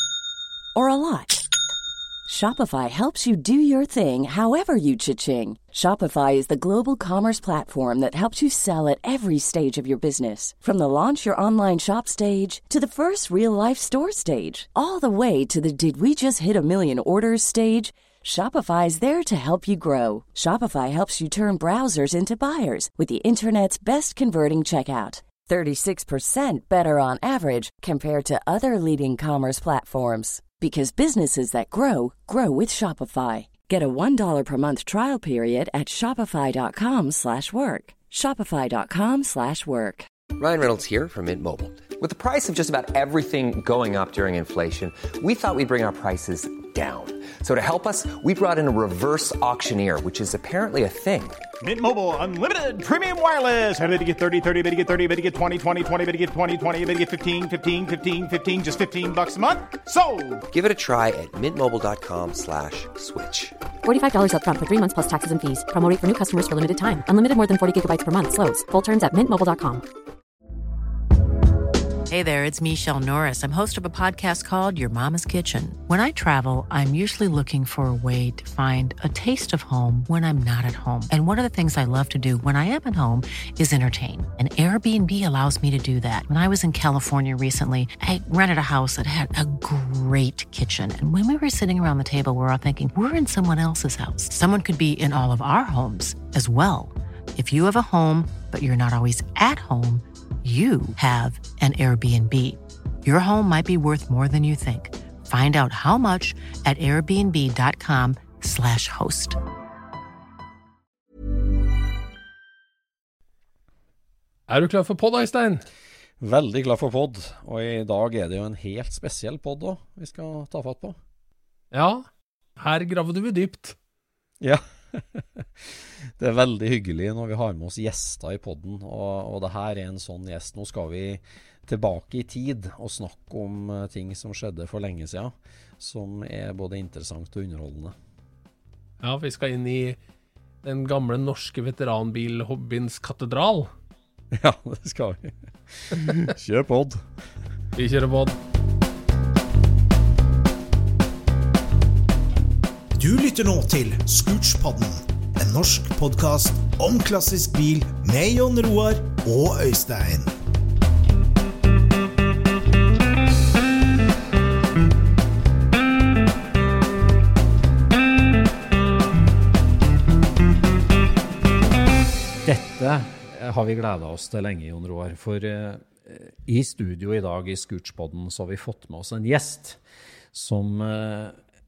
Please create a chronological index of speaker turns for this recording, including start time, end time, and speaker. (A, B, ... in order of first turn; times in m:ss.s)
0:00.7-0:01.4 A
0:02.3-0:40.1 A
0:40.4-0:51.4 B
0:51.6-1:00.4 C
1:00.5-1:03.6 B
1:03.8-1:09.8 D
1:12.1-1:49.4 E
1:54.5-1:55.6 F
1:56.2-2:01.0 G
2:01.7-2:03.8 F
2:04.4-2:17.9 G
2:19.0-2:20.0 F
2:20.6-2:23.7 F
2:24.3-2:27.0 G
2:27.7-2:28.4 F
2:33.0-2:40.3 H
2:52.4-2:59.8 G
3:00.3-3:01.4 G